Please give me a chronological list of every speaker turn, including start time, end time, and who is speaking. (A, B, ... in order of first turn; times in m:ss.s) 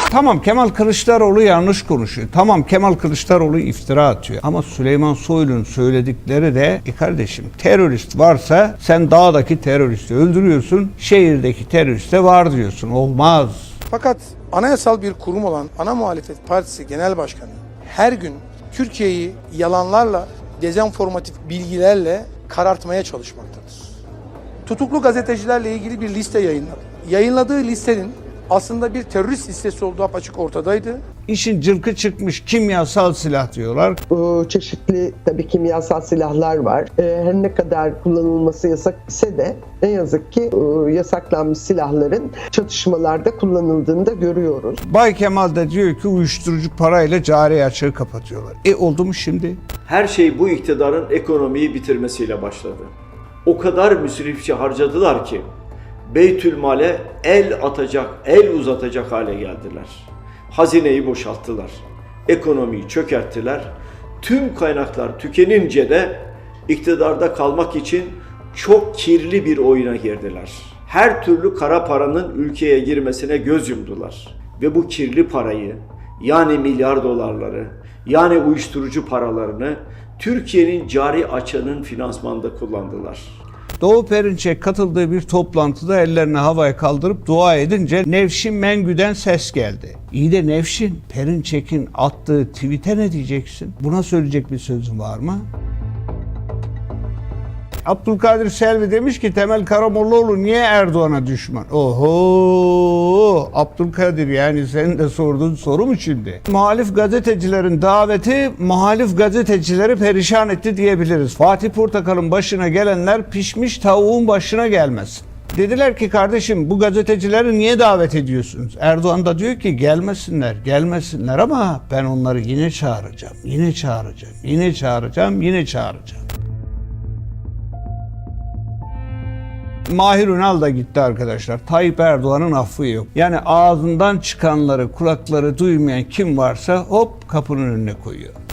0:00.1-0:13.7 A
0:13.9-0:23.8 B
0:24.7-0:31.0 B
0:31.3-0:34.0 A
0:34.1-0:44.8 C
0:44.8-0:49.6 A
0:49.9-0:52.9 D
0:53.5-0:55.4 D
0:56.1-1:23.4 D
1:23.8-1:35.5 A
1:37.8-2:06.2 A
2:09.9-2:18.3 A